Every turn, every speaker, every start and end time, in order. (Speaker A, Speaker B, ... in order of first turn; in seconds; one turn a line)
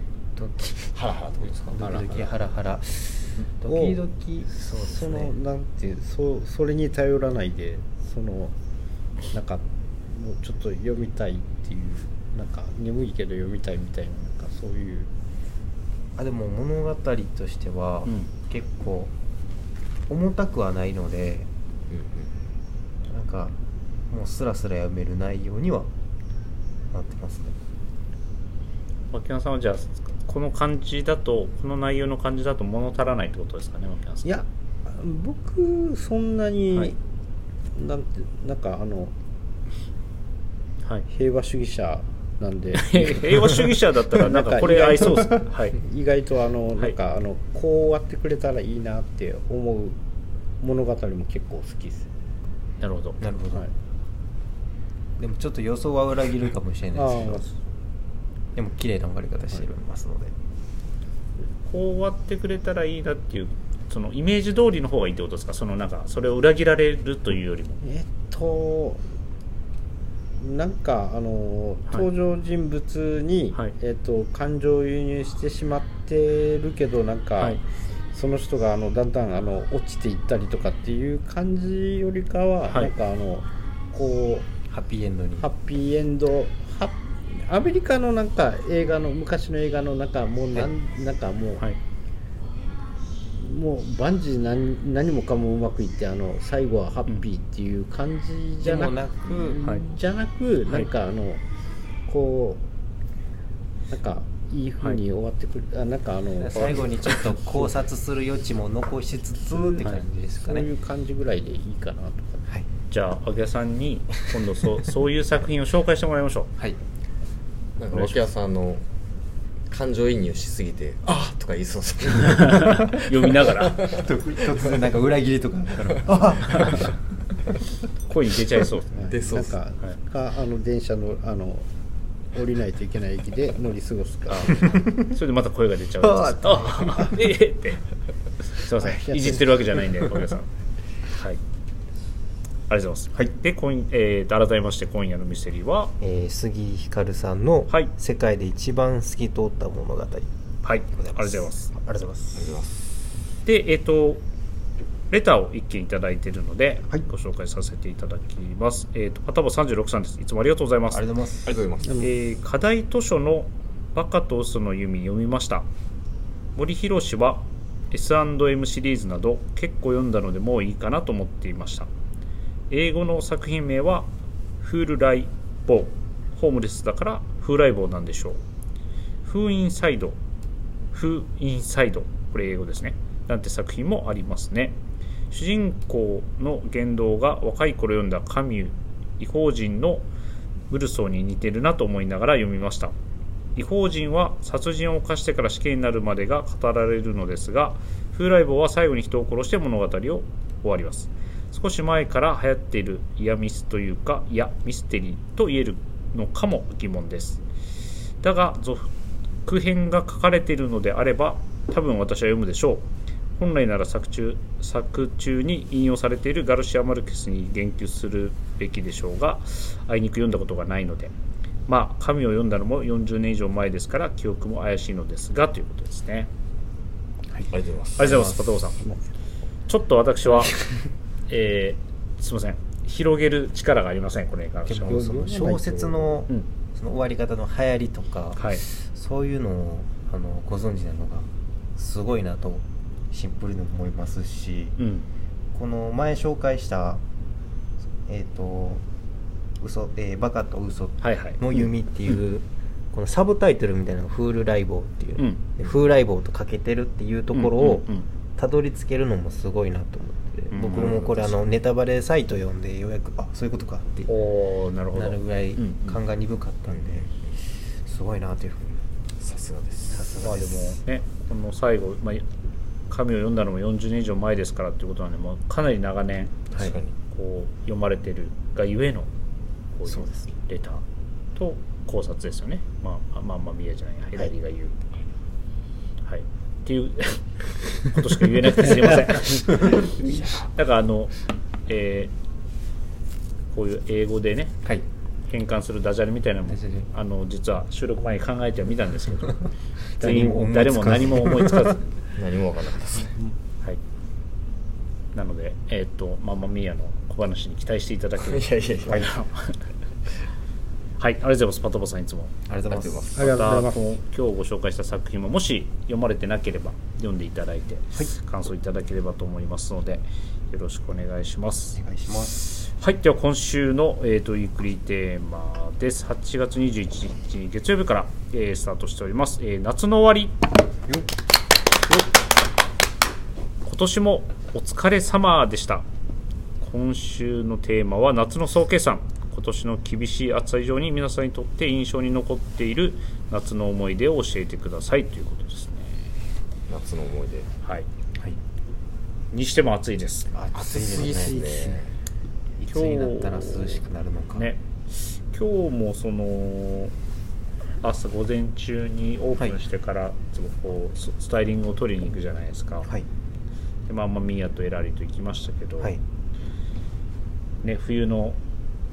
Speaker A: 0.3-0.9
Speaker B: 0.9-2.3
Speaker A: 1.6-5.3
Speaker C: 1.8-2.3
Speaker C: 3.6-4.0
Speaker C: 4.8-8.5
Speaker C: 9.3-15.1
Speaker A: 16.2-19.1
Speaker A: 20.1-21.5
Speaker B: 21.9-22.3
Speaker A: 23.1-23.6
Speaker A: 24.1-25.9
Speaker A: 26.9-27.5
Speaker D: 29.1-34.4
Speaker C: 34.2-37.0
Speaker C: 37.7-39.1
Speaker C: 41.1-50.0
Speaker D: 42.7-45.8
Speaker C: 50.6-52.1
Speaker D: 52.8-53.2
Speaker A: 53.2-53.7
Speaker A: 55.2-57.4
Speaker C: 56.9-57.5
Speaker A: 58.5-60.3
Speaker D: 61.6-67.8
Speaker C: 67.8-69.0
Speaker C: 70.4-77.6
Speaker C: 78.1-84.5
Speaker A: 84.7-85.5
Speaker C: 85.4-91.7
Speaker C: 93.4-101.4
Speaker A: 98.6-99.6
Speaker C: 102.1-102.6
Speaker C: 103.9-107.7
Speaker A: 106.4-110.7
Speaker C: 109.5-109.8
Speaker C: 110.4-112.4
Speaker D: 112.9-116.5
Speaker B: 117.8-118.8
Speaker B: 119.7-124.8
Speaker D: 122.2-123.9
Speaker A: 123.8-127.0
Speaker B: 125.9-126.3
Speaker D: 126.5-126.8
Speaker D: 128.1-128.9
Speaker C: 128.9-131.7
Speaker B: 129.0-129.5
Speaker C: 132.3-134.9
Speaker D: 134.3-137.8
Speaker A: 136.0-137.1
Speaker D: 138.4-140.5
Speaker C: 138.8-139.6
Speaker D: 141.1-141.4
Speaker D: 142.7-145.9
Speaker A: 146.0-150.3
Speaker D: 150.6-151.7
Speaker A: 150.9-152.6
Speaker B: 152.3-152.8
Speaker D: 153.4-154.2
Speaker D: 155.1-161.1
Speaker A: 160.9-161.5
Speaker B: 161.4-162.1
Speaker D: 161.9-165.7
Speaker D: 166.5-171.9
Speaker D: 172.7-174.1
Speaker D: 174.6-178.4
Speaker D: 179.2-180.2
Speaker D: 180.9-184.8
Speaker D: 185.3-190.1
Speaker D: 190.7-192.9
Speaker D: 193.6-207.4
Speaker D: 208.2-208.9
Speaker D: 209.4-221.1
Speaker D: 221.7-226.3
Speaker B: 227.5-228.3
Speaker D: 228.0-228.8
Speaker A: 228.0-228.4
Speaker D: 229.7-230.6
Speaker A: 230.4-230.7
Speaker D: 231.3-235.0
Speaker A: 234.7-244.8
Speaker C: 234.9-236.2
Speaker D: 238.4-238.6
Speaker D: 244.8-245.1
Speaker A: 245.5-247.0
Speaker A: 248.1-248.8
Speaker A: 249.6-257.9
Speaker D: 251.0-251.4
Speaker D: 257.3-258.1
Speaker A: 258.4-264.1
Speaker D: 260.5-261.0
Speaker B: 260.7-261.4
Speaker D: 264.1-266.0
Speaker A: 264.9-267.1
Speaker B: 266.7-267.1
Speaker A: 267.8-268.8
Speaker B: 269.2-270.0
Speaker A: 269.9-270.8
Speaker D: 270.2-272.2
Speaker D: 272.9-276.4
Speaker A: 276.5-276.8
Speaker B: 276.5-276.9
Speaker D: 277.1-279.1
Speaker D: 279.7-280.8
Speaker A: 279.8-280.3
Speaker D: 281.3-284.8
Speaker D: 286.0-291.1
Speaker A: 288.7-290.2
Speaker D: 291.7-292.1
Speaker D: 293.5-294.6
Speaker D: 295.3-299.4
Speaker A: 296.5-296.9
Speaker A: 299.9-301.8
Speaker D: 300.0-301.8
Speaker B: 302.1-303.1
Speaker D: 305.1-309.6
Speaker B: 308.2-309.1
Speaker D: 311.0-312.3
Speaker A: 312.5-313.1
Speaker B: 312.7-313.4
Speaker C: 313.1-313.9
Speaker D: 313.1-321.8
Speaker A: 321.7-322.4
Speaker D: 322.4-330.4
Speaker A: 330.9-331.1
Speaker D: 333.6-335.8
Speaker D: 336.6-346.0
Speaker B: 346.7-347.5
Speaker D: 349.3-350.3
Speaker A: 350.3-351.8
Speaker B: 350.5-351.9
Speaker A: 352.6-354.5
Speaker D: 352.7-353.8
Speaker D: 354.3-356.9
Speaker D: 357.8-362.9
Speaker D: 363.9-366.0
Speaker D: 367.6-368.4